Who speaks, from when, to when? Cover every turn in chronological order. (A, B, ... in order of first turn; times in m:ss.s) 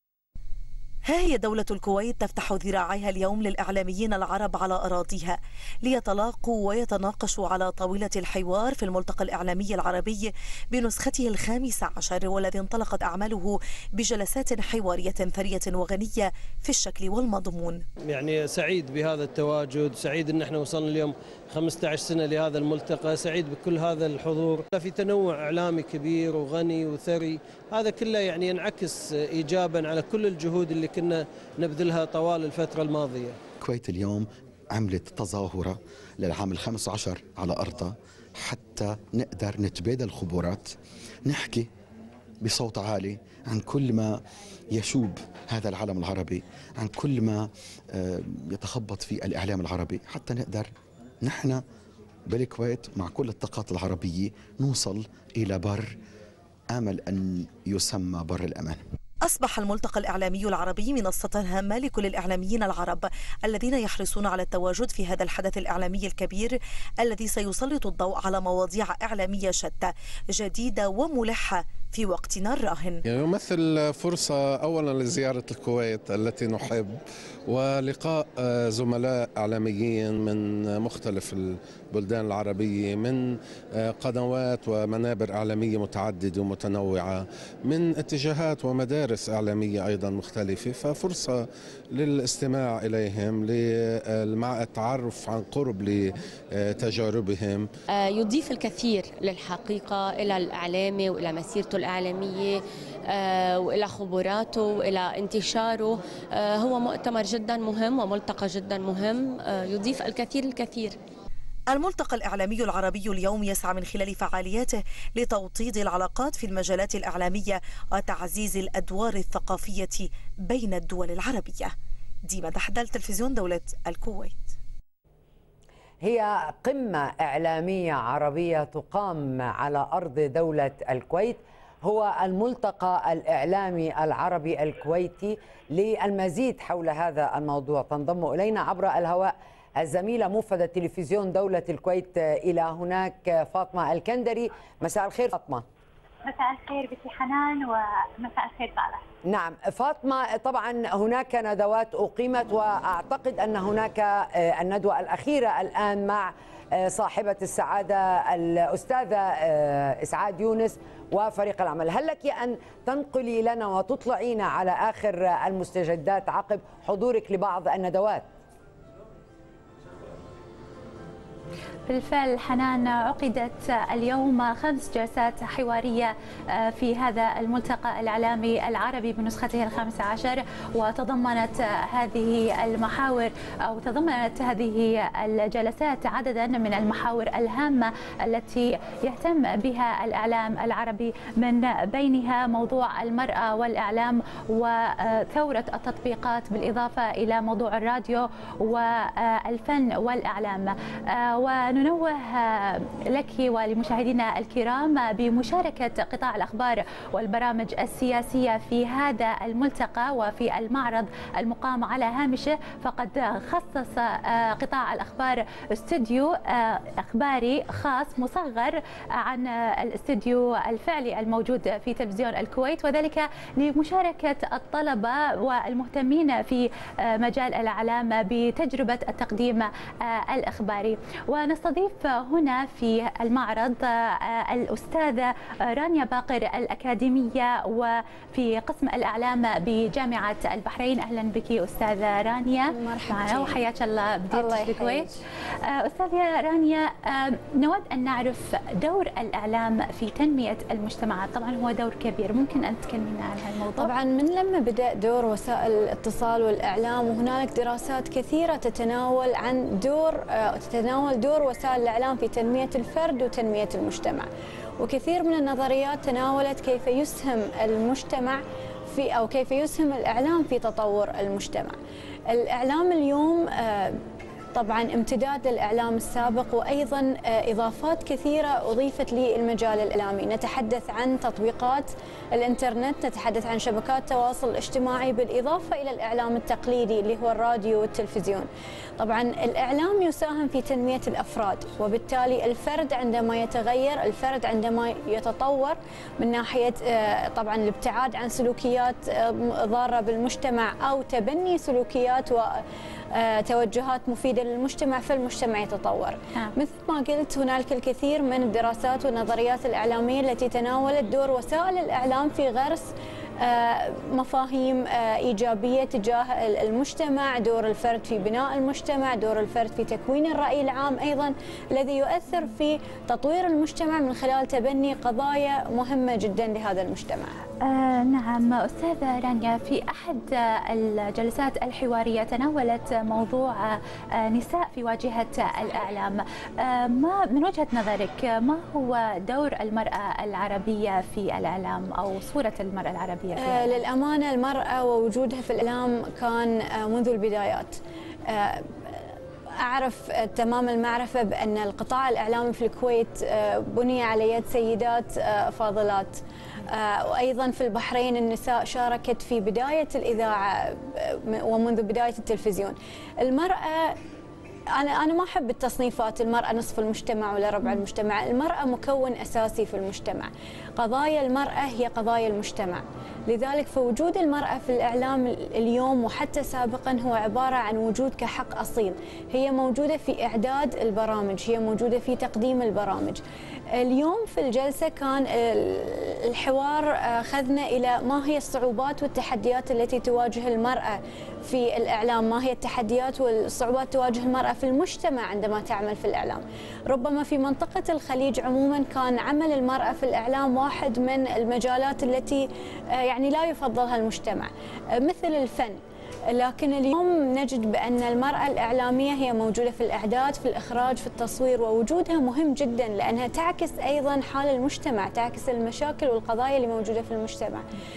0:01.0-0:17.8 A
0:18.1-0:33.4 B
0:33.6-0:40.7 C
0:41.2-0:41.7 C
0:42.4-0:44.2 C
0:44.7-0:50.7 C
0:51.2-0:51.6 C
0:52.3-0:55.9 C
0:56.7-0:58.8 C
0:59.2-1:13.0 A
1:13.1-1:37.7 D
1:37.9-1:51.0 E
1:51.7-2:01.7 A
2:02.2-2:04.5 A
2:06.0-2:25.6 F
2:26.2-2:29.0 G
2:29.2-2:48.3 F
2:51.9-4:05.1 G
4:02.7-4:03.6 H
4:04.3-4:05.2 H
4:05.6-4:13.9 G
4:13.8-4:24.3 H
4:24.8-4:31.8 H
4:32.3-4:34.0 H
4:34.5-5:27.3 H
5:27.6-5:43.8 G
5:43.4-5:49.0 H
5:49.6-6:03.9 H
6:04.7-6:23.2 H
6:23.7-6:57.6 H